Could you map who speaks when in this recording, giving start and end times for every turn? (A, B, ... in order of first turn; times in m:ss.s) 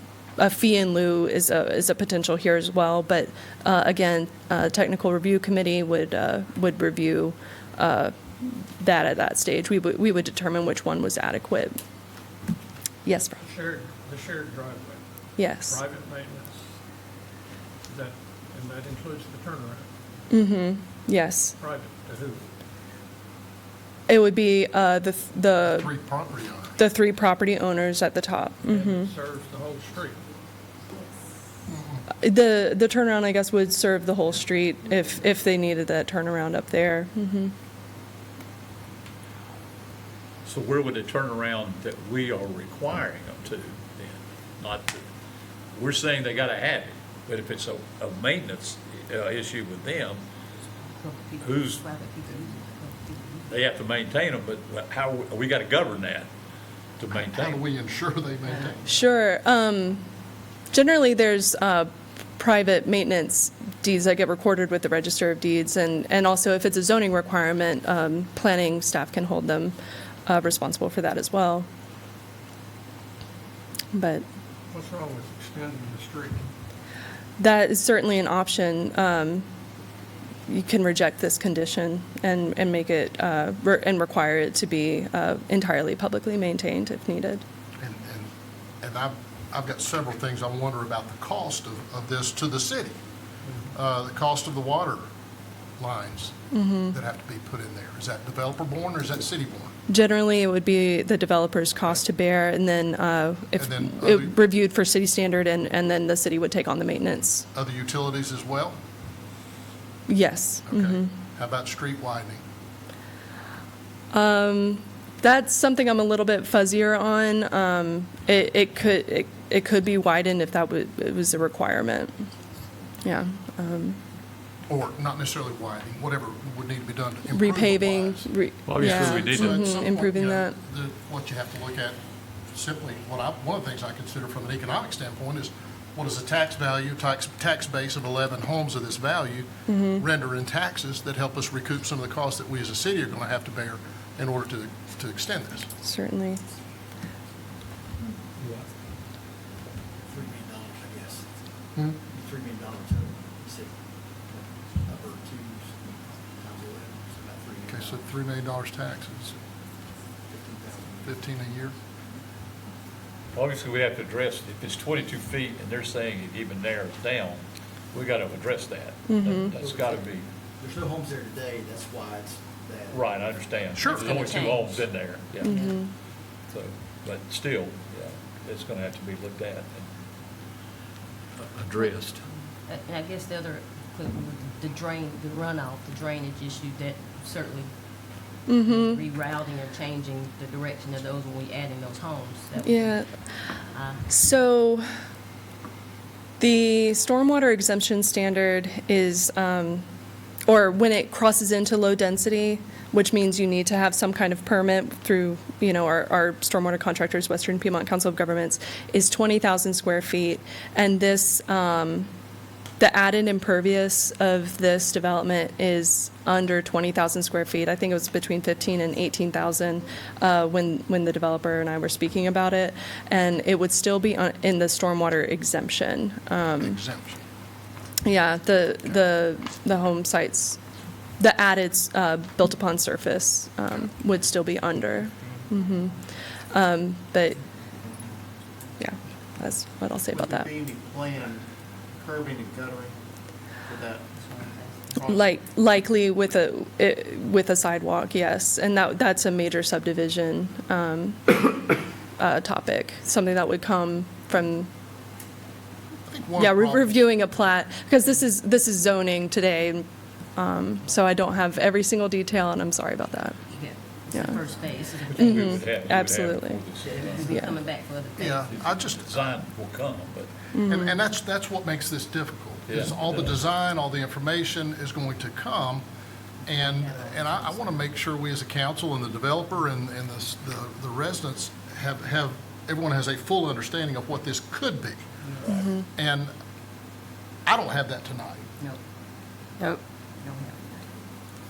0:00.4-0:11.8 A
0:13.0-0:13.4 A
0:13.4-0:16.7 B
0:15.4-0:15.8 A
0:17.8-0:19.9 B
0:20.3-0:21.6 A
0:21.6-0:22.4 B
0:24.1-0:25.9 A
0:25.6-0:26.8 C
0:26.8-0:29.1 A
0:28.6-0:30.2 B
0:31.7-0:32.0 C
0:32.2-0:37.5 A
0:40.4-0:45.0 D
0:45.7-0:50.2 D
0:50.8-0:53.5 E
0:51.4-0:51.8 D
0:53.5-0:56.3 D
0:57.0-0:57.6 D
0:57.1-0:58.9 C
0:58.5-0:58.8 E
0:58.8-1:00.0 A
1:00.7-1:11.7 A
1:13.9-1:14.2 A
1:14.7-1:16.5 B
1:17.4-1:19.4 A
1:20.5-1:27.4 A
1:27.8-1:28.3 C
1:28.8-1:33.0 C
1:33.4-1:33.7 B
1:33.7-1:35.0 C
1:35.8-1:36.3 C
1:36.5-1:36.9 A
1:36.9-1:39.7 C
1:39.9-1:47.4 A
1:43.6-1:44.4 C
1:47.5-1:48.8 C
1:50.1-1:51.1 A
1:50.7-1:52.4 C
1:54.1-2:02.2 A
2:03.0-2:04.0 A
2:04.7-2:12.0 C
2:07.3-2:10.6 A
2:08.7-2:09.6 D
2:12.5-2:25.7 C
2:19.7-2:20.0 A
2:25.8-2:26.4 A
2:30.0-2:31.3 F
2:32.0-2:38.0 F
2:37.7-2:39.4 C
2:40.3-2:41.5 F
2:41.0-2:41.7 C
2:43.3-2:47.4 D
2:47.9-2:50.2 D
2:49.1-2:49.5 A
2:49.5-2:50.0 F
2:50.6-2:54.6 F
2:52.9-2:55.7 D
2:53.8-2:54.1 C
2:53.8-2:54.8 E
2:55.4-2:55.8 E
2:55.4-2:55.9 A
2:56.5-2:59.9 D
3:01.5-3:02.2 D
3:02.6-3:14.1 E
3:08.5-3:09.0 A
3:12.6-3:13.2 A
3:14.1-3:14.8 A
3:16.4-3:19.8 A
3:20.4-3:32.1 A
3:32.8-3:46.8 A
3:46.6-3:47.2 C
3:48.0-3:50.6 A
3:51.2-3:55.9 A
3:55.2-3:55.5 F
3:56.5-3:57.4 A
3:58.8-4:00.5 A
4:00.1-4:03.0 F
4:03.6-4:04.1 F
4:04.2-4:04.9 E
4:05.0-4:05.2 F
4:05.0-4:11.6 A
4:12.2-4:14.7 A
4:16.0-4:17.0 C
4:16.4-4:23.4 A
4:23.5-4:25.7 E
4:24.1-4:24.4 A
4:25.1-4:27.3 D
4:25.2-4:26.6 A
4:26.8-4:27.5 F
4:26.8-4:28.9 E
4:28.2-4:29.4 C
4:28.5-4:30.4 D
4:30.5-4:31.0 A
4:30.6-4:35.8 C
4:32.7-4:33.3 D
4:36.4-4:45.0 C
4:36.6-4:37.9 E
4:45.5-4:45.8 A
4:45.8-4:46.3 C
4:47.4-4:48.5 C
4:49.6-4:50.9 E